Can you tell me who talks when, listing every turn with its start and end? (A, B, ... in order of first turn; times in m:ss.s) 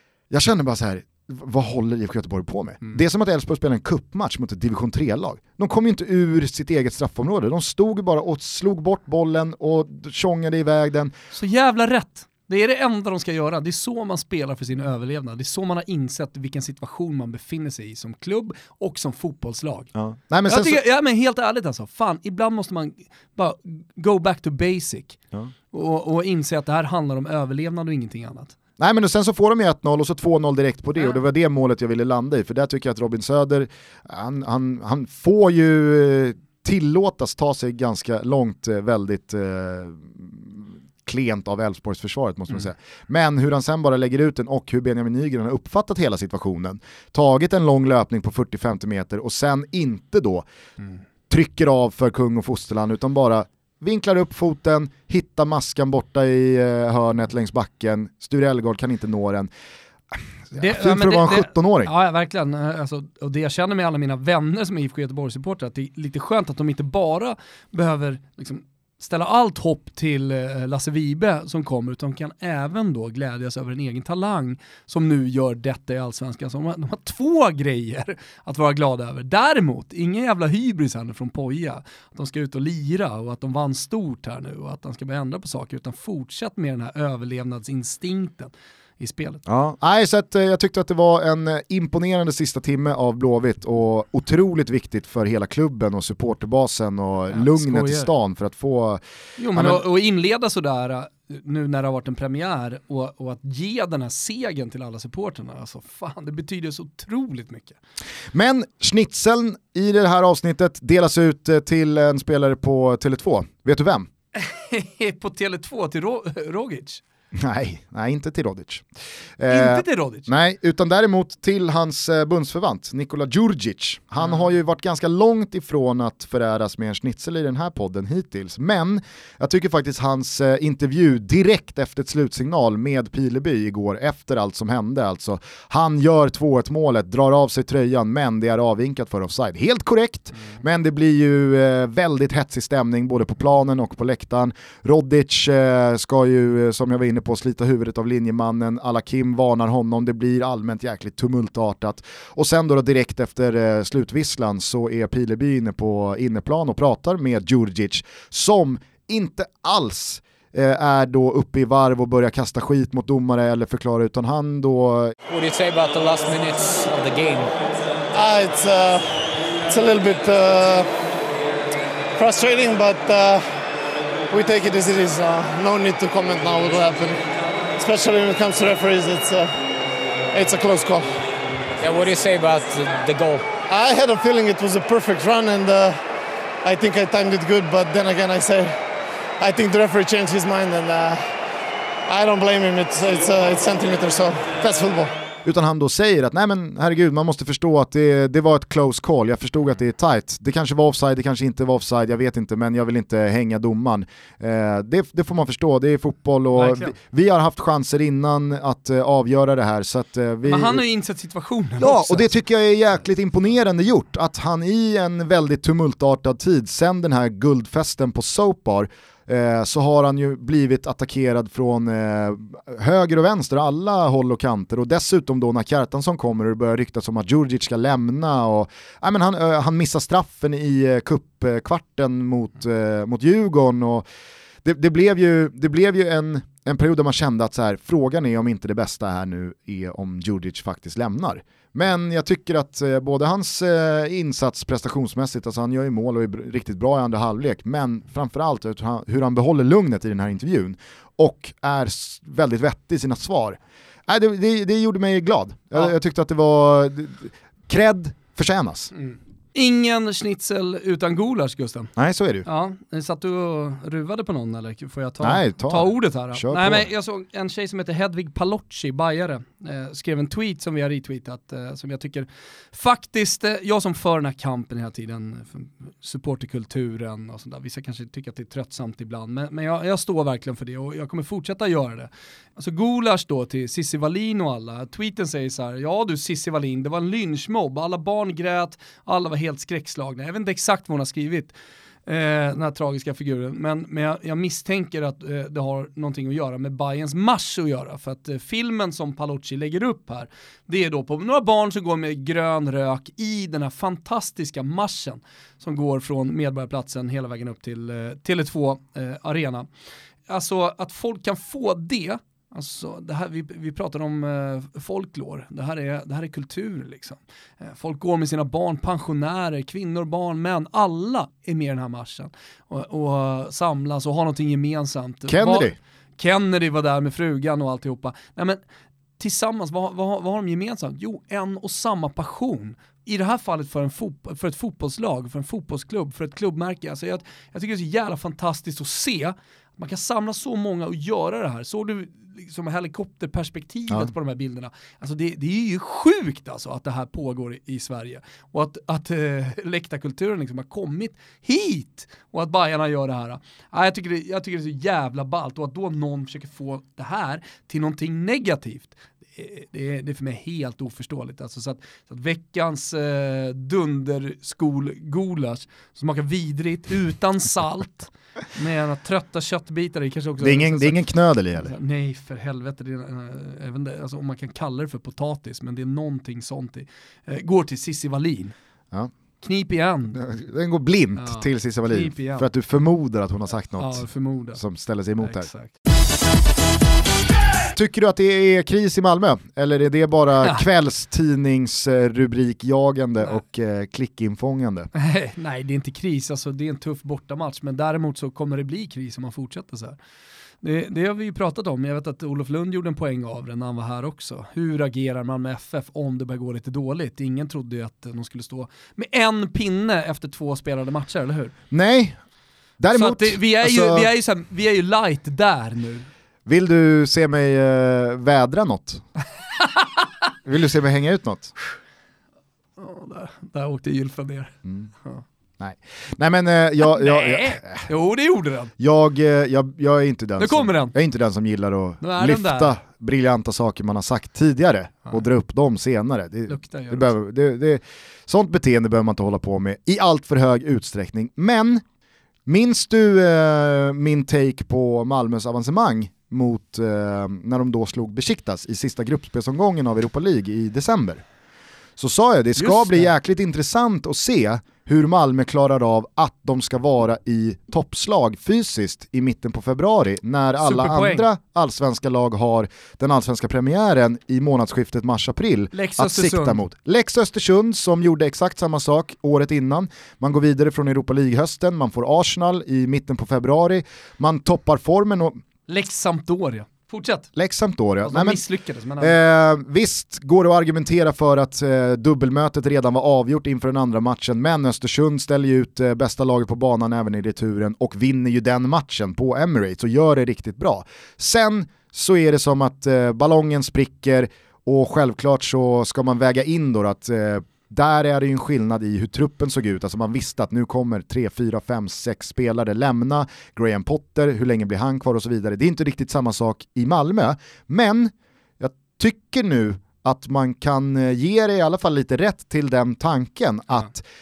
0:00.3-0:11.1 A
0:11.3-0:19.9 B
0:20.0-0:20.8 A
0:20.5-0:25.2 B
0:25.7-0:28.6 B
0:28.8-0:50.5 A
0:51.3-0:59.5 A
1:00.5-1:01.9 A
1:00.6-1:29.4 B
1:29.5-1:39.0 A
1:37.3-1:38.1 B
1:39.4-1:47.8 B
1:39.5-1:39.8 A
1:48.3-1:54.1 A
1:54.4-1:57.0 B
1:57.4-1:58.8 A
1:59.4-2:45.1 A
1:59.5-2:00.3 B
2:45.3-2:47.5 C
2:48.1-2:49.1 D
2:49.7-2:50.9 D
2:52.2-2:53.4 D
2:54.3-2:57.2 D
2:57.8-2:59.5 D
3:00.3-3:01.1 D
3:01.8-3:03.5 C
3:03.7-3:06.0 D
3:06.6-3:08.8 D
3:09.4-3:11.3 D
3:12.1-3:15.1 D
3:15.5-3:30.8 A
3:26.6-3:26.9 B
3:30.4-3:32.3 B
3:31.8-3:54.0 A
3:54.6-4:18.9 A
4:19.1-4:21.9 B
4:22.0-4:22.5 A
4:22.4-4:51.5 B
4:25.2-4:26.9 A
4:52.1-5:09.7 B
5:10.3-5:28.6 B
5:25.3-5:25.8 A
5:29.2-6:11.0 B
6:10.4-6:11.7 A
6:11.6-6:18.6 B
6:19.4-6:20.2 B
6:20.2-6:24.0 A
6:21.2-6:22.5 B
6:23.8-6:24.6 B
6:24.6-6:25.5 A
6:25.2-6:25.7 B
6:27.7-6:34.9 A
6:30.4-6:30.7 B
6:34.9-6:40.0 B
6:40.6-6:51.5 B
6:51.7-6:52.2 A
6:52.8-6:54.1 A
6:52.9-6:56.1 B
6:56.5-6:59.0 A
6:59.6-7:00.1 B
7:00.4-7:01.5 A
7:02.8-7:05.2 B
7:04.6-7:04.9 A
7:05.6-7:07.9 A
7:06.8-7:08.7 B
7:08.8-7:21.8 A
7:10.4-7:11.0 B
7:12.0-7:12.8 B
7:16.5-7:17.2 B
7:22.5-7:31.2 A
7:32.0-7:55.4 A
7:32.6-7:33.1 B
7:40.6-7:41.3 B
7:45.7-7:46.6 B
7:55.7-7:57.3 B
7:57.4-7:58.4 A
7:58.0-7:59.2 B
7:59.0-8:34.0 A